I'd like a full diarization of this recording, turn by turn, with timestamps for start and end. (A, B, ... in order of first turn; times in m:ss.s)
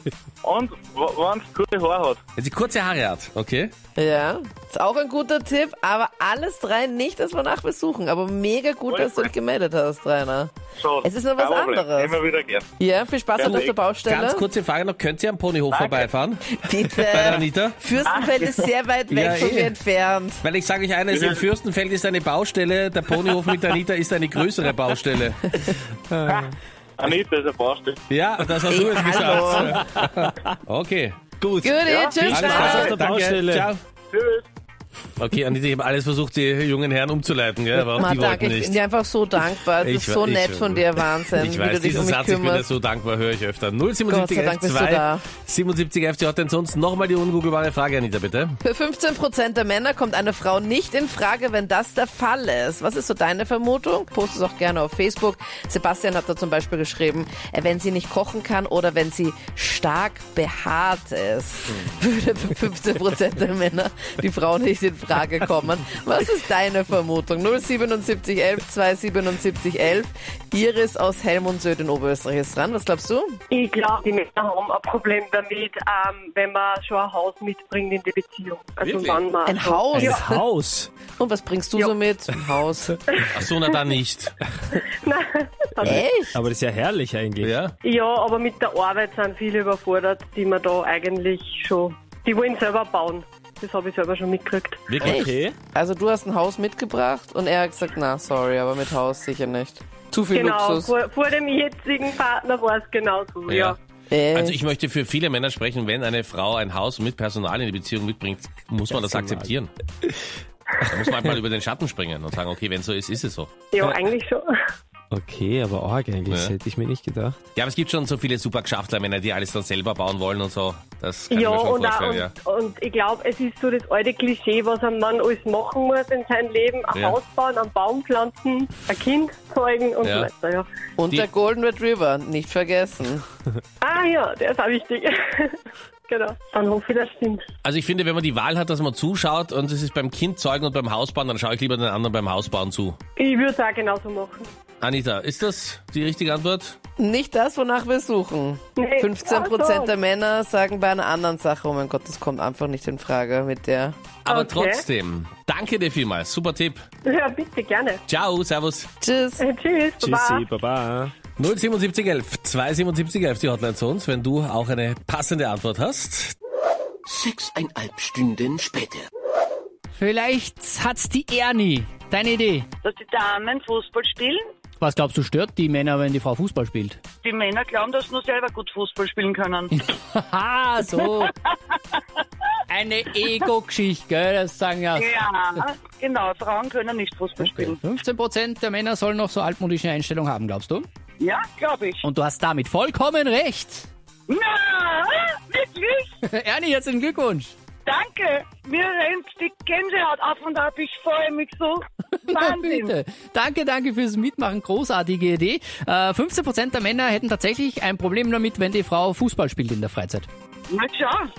0:00.4-0:02.2 A
0:02.4-0:03.7 B
0:04.0-0:12.2 C
0:08.9-0:09.3 A
0:10.8-0:12.7 A
0:12.8-0:14.5 C
0:13.3-0:13.8 A
0:13.4-0:16.4 B
0:15.7-0:16.1 A
0:16.5-0:20.4 C
0:16.9-0:17.8 B
0:18.0-0:18.7 A
0:19.1-0:19.8 B
0:20.4-0:25.6 B
0:21.1-0:21.4 A
0:26.1-0:26.4 D
0:26.3-0:28.0 A
0:28.1-0:31.2 B
0:28.7-0:29.8 C
0:29.6-0:30.3 D
0:31.4-0:33.7 D
0:31.6-0:33.0 C
0:32.3-0:33.8 B
0:34.1-0:34.5 A
0:35.2-0:38.8 B
0:37.9-0:42.7 C
0:39.8-0:48.6 B
0:44.1-0:45.2 C
0:48.6-1:13.4 C
1:13.5-1:20.2 E
1:18.8-1:19.2 B
1:19.4-1:20.4 C
1:19.9-1:20.9 D
1:21.2-1:23.0 C
1:23.3-1:24.4 B
1:25.0-1:26.0 E
1:25.8-1:26.4 C
1:25.8-1:27.6 D
1:27.4-1:27.7 B
1:27.8-1:34.8 E
1:34.9-1:35.2 B
1:35.0-1:40.9 C
1:35.0-1:35.6 D
1:40.3-1:43.8 E
1:43.5-1:43.8 B
1:44.1-1:44.6 C
1:44.3-1:49.7 B
1:48.9-1:49.5 D
1:50.8-1:53.5 B
1:53.7-1:54.5 E
1:55.1-1:57.4 D
1:56.3-1:56.5 B
1:57.6-2:02.4 B
2:01.3-2:10.7 E
2:10.0-2:10.3 B
2:11.0-2:13.2 C
2:13.8-2:15.6 E
2:16.1-2:17.4 E
2:17.6-2:23.0 B
2:23.2-2:24.5 E
2:24.8-2:26.8 B
2:27.0-2:34.0 C
2:28.8-2:29.9 E
2:34.2-2:36.8 B
2:34.3-2:34.8 E
2:37.0-2:38.0 E
2:38.1-2:38.9 B
2:39.0-2:39.4 C
2:39.4-2:40.4 E
2:40.0-2:41.1 D
2:41.4-2:46.4 B
2:47.1-2:49.1 F
2:50.0-2:52.7 G
2:52.8-2:54.5 H
2:54.8-2:57.0 G
2:57.2-2:59.8 H
2:59.9-3:01.3 G
3:02.7-3:05.2 G
3:04.9-3:07.8 H
3:07.4-3:10.9 G
3:11.2-3:12.0 H
3:12.0-3:13.9 G
3:14.3-3:16.1 H
3:16.2-3:17.6 G
3:17.8-3:23.0 H
3:22.2-3:30.3 G
3:30.7-3:31.3 H